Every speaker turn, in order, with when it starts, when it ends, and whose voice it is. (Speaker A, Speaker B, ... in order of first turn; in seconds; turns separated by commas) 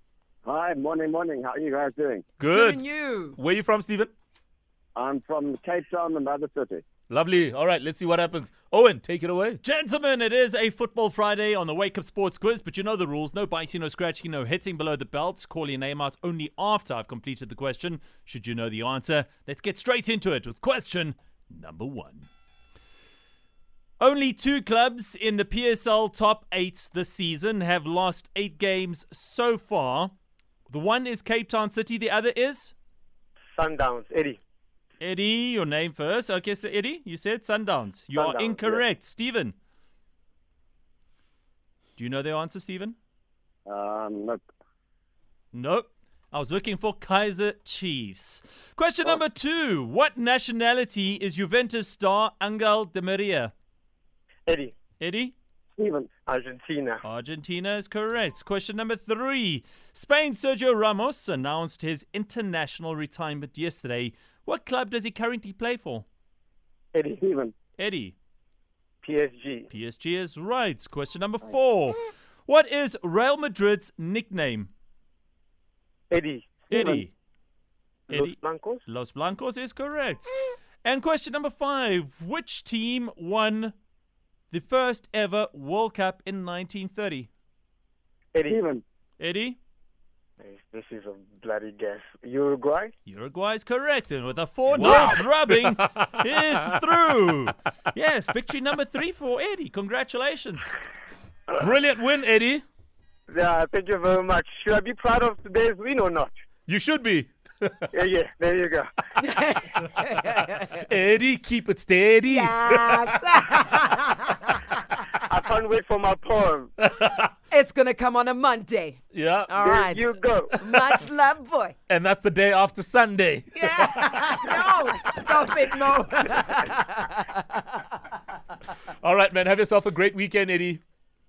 Speaker A: 0.5-2.2, Speaker B: 2.4-2.8, Speaker C: 2.5-3.4, Speaker B: 3.4-4.1, Speaker A: 5.0-6.8, Speaker B: 7.1-9.6, Speaker D: 9.6-22.3, Speaker D: 24.0-30.1, Speaker D: 30.7-32.7, Speaker E: 33.5-34.4, Speaker D: 35.0-39.5, Speaker E: 38.1-38.8, Speaker D: 42.0-43.0, Speaker A: 43.7-44.4, Speaker D: 45.5-53.5, Speaker E: 54.5-54.8, Speaker D: 55.0-55.4, Speaker A: 55.8-56.1, Speaker E: 56.3-57.0, Speaker D: 57.0-66.1, Speaker E: 66.9-67.2, Speaker A: 67.2-67.5, Speaker D: 67.8-68.2, Speaker E: 69.0-69.7, Speaker D: 69.7-74.7, Speaker E: 76.1-76.9, Speaker D: 76.7-77.1, Speaker A: 76.7-77.0, Speaker E: 78.1-78.8, Speaker D: 78.1-83.8, Speaker D: 84.5-87.3, Speaker E: 88.3-88.6, Speaker A: 88.5-88.8, Speaker D: 89.2-89.6, Speaker E: 90.4-92.9, Speaker D: 93.1-100.8, Speaker B: 94.7-96.2, Speaker E: 94.8-95.2, Speaker B: 101.6-102.6, Speaker E: 103.3-106.3, Speaker B: 106.7-107.9, Speaker E: 107.9-108.9, Speaker C: 109.2-110.8, Speaker B: 110.5-113.2, Speaker C: 112.2-114.8, Speaker E: 115.2-116.7, Speaker B: 116.8-117.3, Speaker C: 117.5-121.8, Speaker B: 119.1-119.5, Speaker E: 119.5-120.6, Speaker B: 121.9-124.6, Speaker C: 123.5-127.8, Speaker B: 128.9-130.8